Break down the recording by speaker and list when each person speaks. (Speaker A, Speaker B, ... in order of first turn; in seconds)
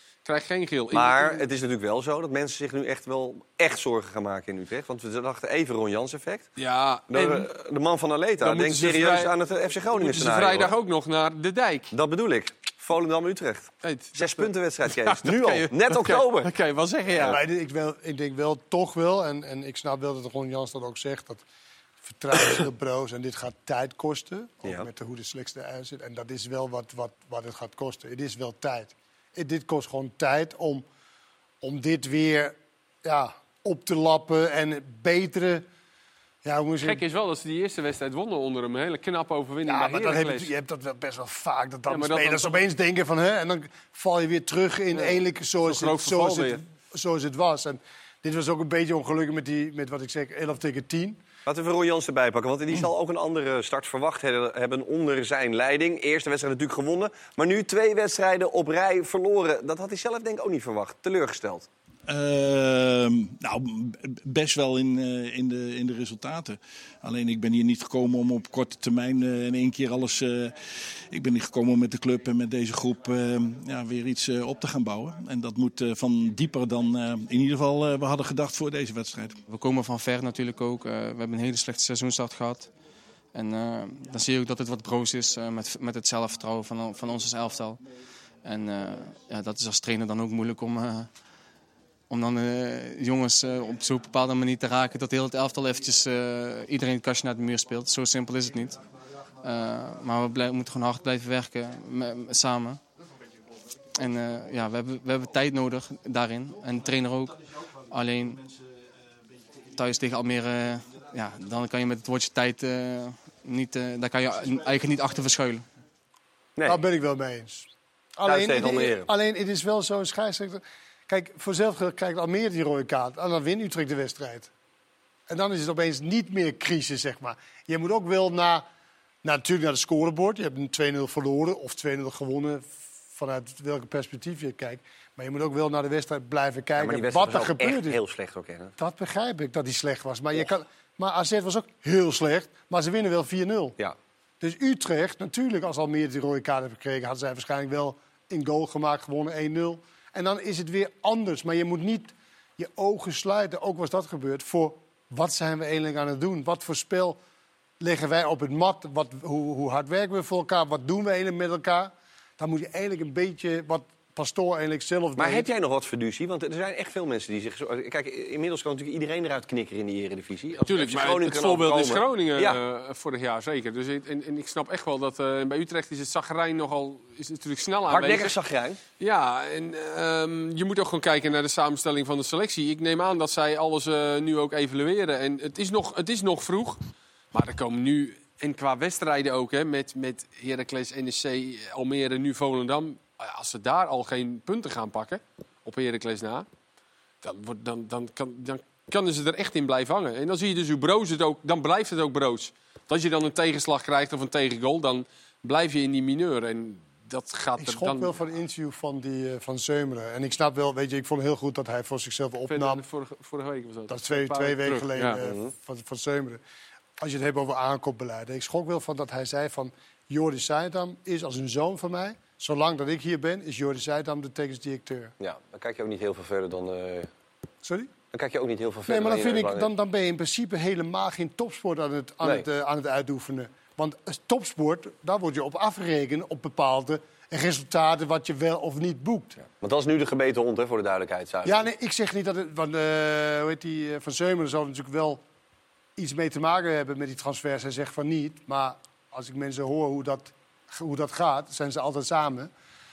Speaker A: 0.2-1.5, 6.6-7.5, 8.4-9.3, 9.9-11.9, 13.8-17.4, 36.8-40.5, 41.9-42.6, 44.9-46.6, 170.7-178.4, 179.0-186.8, 187.3-196.5, 197.2-208.1, 212.5-215.2
Speaker B: 0.9-6.5, 7.1-10.7, 11.9-16.5, 51.5-61.7, 118.3-119.1, 136.8-138.7, 165.2-172.6, 177.9-178.8, 215.2-215.5, 225.2-227.1, 228.1-229.7, 239.4-241.7
Speaker C: 17.2-21.4, 22.0-30.9, 31.6-35.6, 36.4-37.0, 39.6-51.2, 116.7-124.5, 125.3-128.7, 129.2-138.0, 138.8-143.8, 144.4-157.2, 157.8-165.5, 207.6-212.8, 213.9-216.4, 217.0-225.1, 227.6-227.9, 228.9-239.4, 241.4-245.2, 246.0-252.5
Speaker D: 62.1-70.5, 71.1-79.4
Speaker E: 79.5-82.7, 83.3-87.8, 88.4-91.2, 92.1-98.8, 99.4-102.8, 104.0-107.4, 107.9-108.4, 109.8-115.7